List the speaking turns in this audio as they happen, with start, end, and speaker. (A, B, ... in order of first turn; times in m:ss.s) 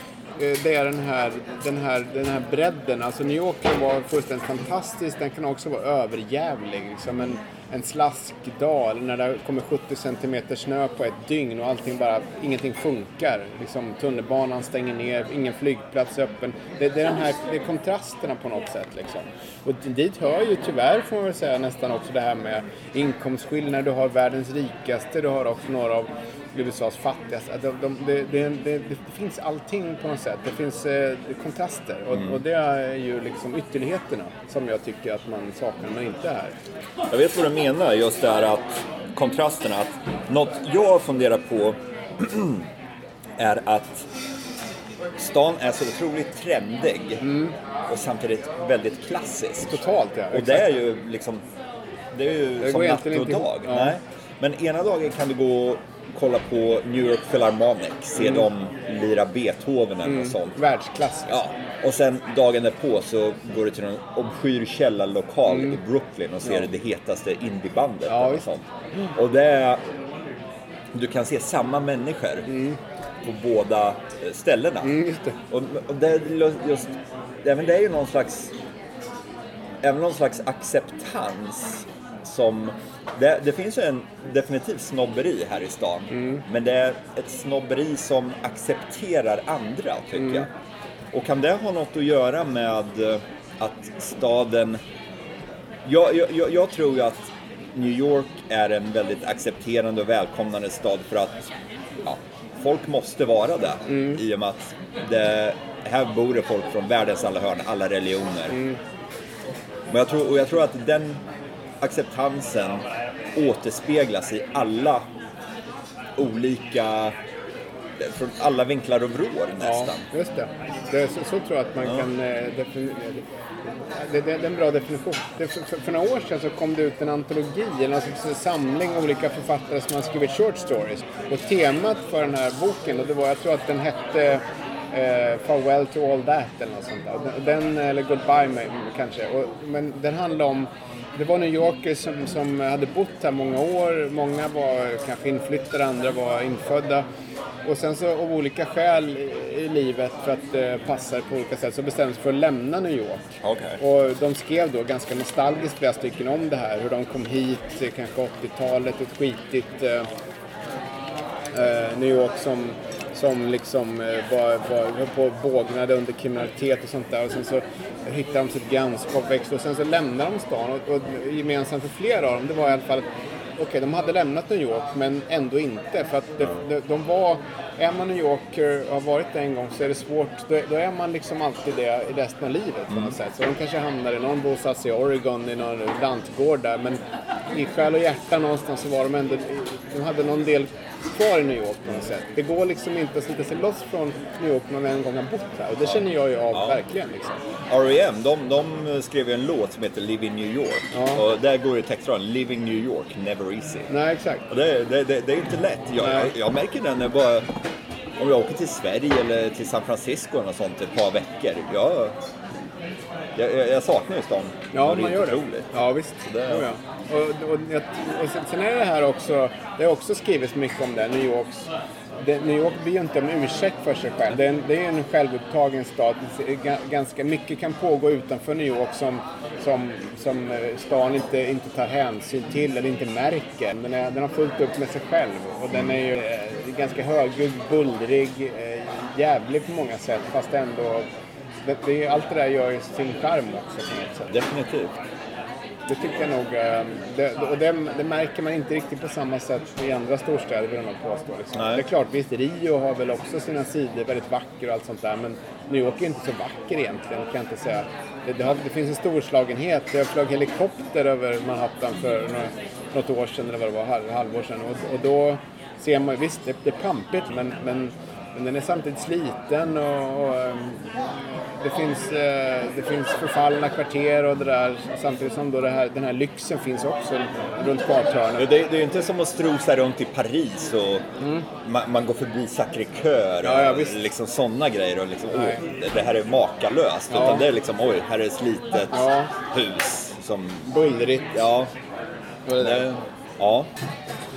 0:00.4-0:36.6 A
0:32.1-0:32.4 B
0:37.1-0:42.7 B
0:43.4-0:44.1 B
0:45.2-0:47.3 B
0:47.2-0:47.5 A
0:47.9-0:49.8 B
0:49.6-0:50.7 A
0:50.3-0:51.4 B
0:52.1-1:00.6 B
0:52.6-0:54.0 A
1:00.0-1:01.4 A
1:01.3-1:09.8 B
1:05.5-1:05.8 A
1:08.1-1:08.4 A
1:10.9-1:12.5 B
1:12.4-1:12.8 A
1:13.2-1:18.5 B
1:14.8-1:15.4 A
1:19.8-1:30.5 B
1:26.1-1:26.4 A
1:30.2-1:30.4 A
1:31.1-1:34.8 B
1:35.8-1:41.5 B
1:42.0-1:48.6 B
1:43.9-1:44.2 A
1:48.5-1:48.8 A
1:49.9-1:51.2 B
1:51.8-1:55.1 B
1:56.2-1:57.2 B
1:58.0-2:00.0 B
1:59.6-2:27.0 A
2:27.6-2:33.2 A
2:33.4-2:33.8 B
2:33.8-2:40.1 A
2:41.5-3:07.0 A
3:07.5-3:17.4 A
3:16.5-3:16.8 B
3:17.7-3:23.9 B
3:20.9-3:21.2 A
3:23.9-3:24.4 A
3:24.5-3:27.5 B
3:26.0-3:26.3 A
3:28.2-3:32.2 B
3:33.4-3:35.7 B
3:34.7-3:41.6 A
3:36.2-3:36.7 B
3:42.2-4:01.1 A
4:01.6-4:04.4 A
4:04.3-4:05.0 B
4:05.9-4:38.5 A
4:11.5-4:11.8 B
4:38.4-4:41.1 B
4:41.2-4:41.4 A
4:41.6-4:50.7 B
4:43.4-4:44.0 A
4:45.3-4:45.6 A
4:47.1-4:47.4 A
4:48.9-4:49.3 A
4:50.6-4:51.3 A
4:51.3-4:51.7 B
4:52.4-4:52.9 A
4:52.6-4:53.7 B